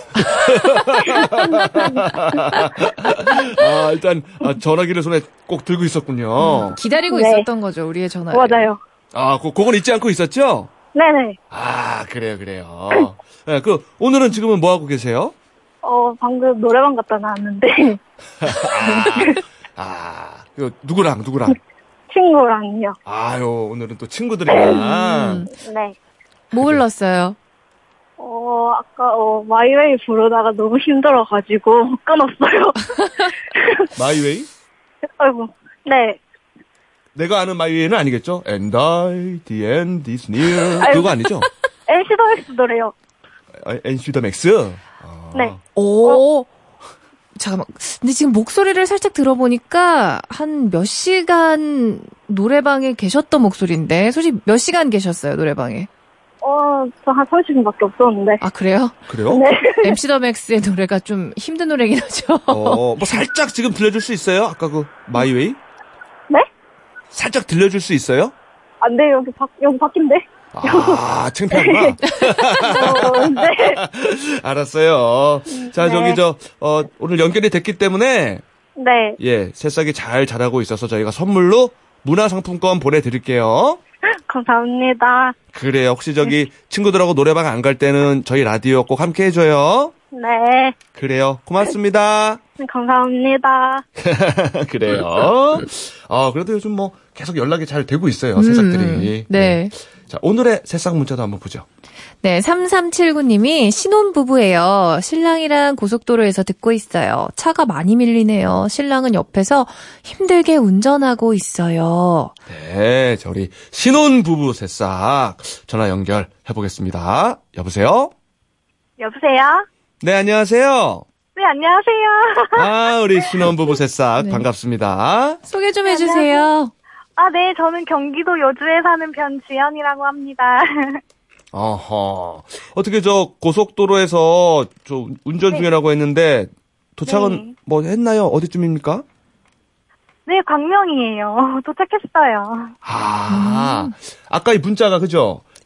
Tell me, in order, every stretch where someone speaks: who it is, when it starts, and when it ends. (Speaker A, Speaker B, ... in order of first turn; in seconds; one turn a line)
Speaker A: 0.3-6.8
Speaker B: 1.0-2.0
Speaker C: 6.4-8.7
Speaker B: 7.0-7.5
Speaker B: 8.3-8.8
Speaker A: 9.1-10.7
Speaker B: 10.9-11.4
Speaker A: 11.5-15.3
Speaker B: 15.8-19.3
Speaker A: 18.4-21.6
Speaker B: 22.1-23.0
Speaker A: 23.1-25.4
Speaker B: 24.5-24.8
Speaker C: 24.6-25.5
Speaker B: 25.5-25.9
Speaker C: 26.5-27.4
Speaker B: 28.2-32.9
Speaker B: 33.5-33.9
Speaker A: 33.9-34.5
Speaker B: 35.2-36.2
Speaker A: 37.1-41.5
Speaker B: 40.8-41.3
Speaker B: 41.9-42.9
Speaker A: 43.6-45.6
Speaker B: 45.3-46.2
Speaker C: 45.8-46.5
Speaker C: 47.4-55.9
Speaker B: 56.4-58.4
Speaker C: 58.4-58.9
Speaker A: 59.1-59.5
Speaker B: 59.3-60.0
Speaker C: 59.8-63.2
Speaker A: 62.5-65.6
Speaker A: 67.1-68.3
Speaker B: 68.8-73.8
Speaker A: 70.5-78.4
Speaker B: 75.5-76.2
Speaker B: 78.8-79.2
Speaker A: 79.2-83.8
Speaker B: 84.3-85.3
Speaker A: 85.5-89.9
Speaker B: 90.1-90.8
Speaker A: 90.9-92.4
Speaker B: 92.6-93.8
Speaker A: 94.0-101.7
Speaker C: 98.3-99.7
Speaker C: 102.2-112.3
Speaker A: 112.5-118.1
Speaker B: 119.0-119.7
Speaker A: 120.0-121.0
Speaker B: 121.3-123.5
Speaker A: 122.5-125.4
Speaker C: 124.2-124.4
Speaker C: 125.5-126.7
Speaker B: 125.8-126.5
Speaker B: 127.2-131.0
Speaker A: 131.5-139.0
Speaker B: 137.0-137.5
Speaker B: 140.2-142.7
Speaker A: 142.8-145.4
Speaker C: 143.3-143.9